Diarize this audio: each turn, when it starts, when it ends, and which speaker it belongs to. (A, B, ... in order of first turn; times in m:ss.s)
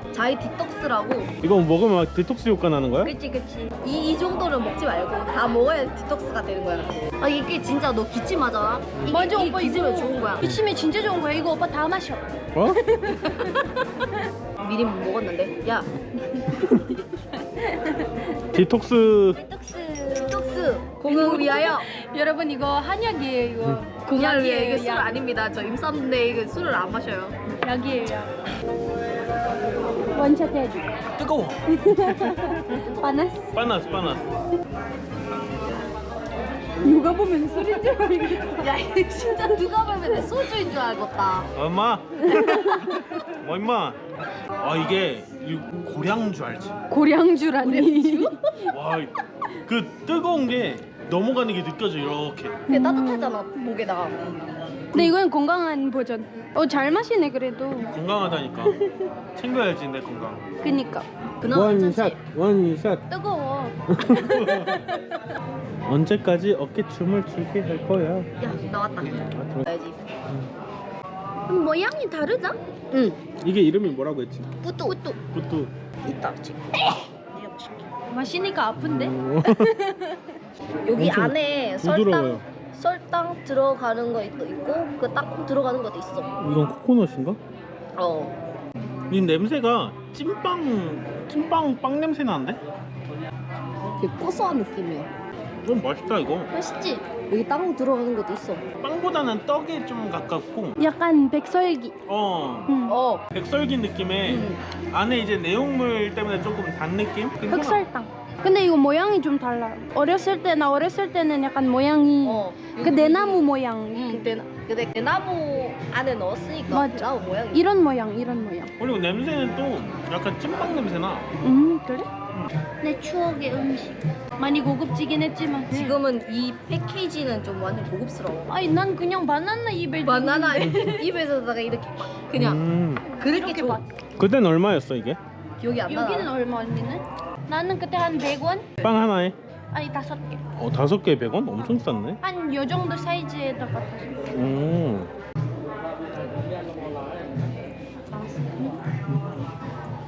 0:00.1-0:01.3 A
0:01.4-0:03.1 B
0:03.0-0:03.7 C
0:03.8-0:10.4 A
0:09.1-0:14.2 C
0:12.6-0:12.8 B
0:14.6-0:15.9 A
0:16.4-0:18.4 C
0:18.5-0:19.4 B
0:19.3-0:25.2 C
0:20.2-0:21.9 A
0:24.0-0:27.4 A
0:27.6-0:28.3 C
0:30.1-0:30.9 C
0:31.2-0:32.5 B
0:31.7-0:33.5 C
0:32.7-0:33.2 A
0:33.5-0:34.2 B
0:36.8-0:38.7 C
0:38.5-0:41.5 A
0:41.6-0:44.0 B
0:42.2-0:43.0 C
0:44.6-0:46.7 B
0:46.9-0:48.3 C
0:47.6-0:48.6 A
0:48.7-0:49.1 B
0:49.7-0:52.6 B
0:52.7-0:53.4 C
0:52.7-0:54.2 A
0:54.9-0:57.9 C
0:57.9-0:58.8 B
0:59.4-1:00.4 B
1:00.6-1:01.1 C
1:01.4-1:02.1 A
1:01.5-1:03.0 B
1:03.1-1:05.1 C
1:03.9-1:04.8 B
1:05.9-1:08.3 B
1:08.4-1:10.0 A
1:09.2-1:09.7 B
1:11.5-1:12.6 C
1:12.9-1:13.2 A
1:13.4-1:14.5 B
1:14.6-1:15.2 A
1:14.9-1:15.1 C
1:15.3-1:15.7 B
1:16.0-1:17.9 A
1:18.1-1:20.2 C
1:18.8-1:19.7 B
1:20.8-1:26.3 A
1:21.0-1:22.4 B
1:26.4-1:27.4 B
1:28.0-1:28.4 A
1:29.1-1:32.6 B
1:34.0-1:35.1 A
1:35.6-1:36.5 B
1:36.5-1:37.0 C
1:37.3-1:38.6 A
1:38.8-1:40.8 B
1:40.8-1:42.0 C
1:42.1-1:42.7 B
1:42.7-1:43.0 C
1:42.9-1:43.2 A
1:43.3-1:47.8 B
1:44.3-1:44.6 A
1:47.5-1:54.3 C
1:52.2-1:57.6 A
1:56.7-1:58.7 C
1:58.8-2:01.3 B
2:01.4-2:02.1 C
2:02.8-2:06.0 C
2:05.7-2:08.5 A
2:08.5-2:11.0 C
2:10.0-2:12.6 A
2:10.6-2:11.0 B
2:12.4-2:13.0 B
2:13.1-2:13.9 C
2:13.2-2:13.8 A
2:14.2-2:15.2 B
2:15.6-2:16.3 A
2:15.9-2:18.7 C
2:18.8-2:19.4 B
2:19.7-2:20.4 C
2:20.6-2:22.2 B
2:22.2-2:24.2 C
2:24.3-2:25.1 B
2:28.1-2:28.8 C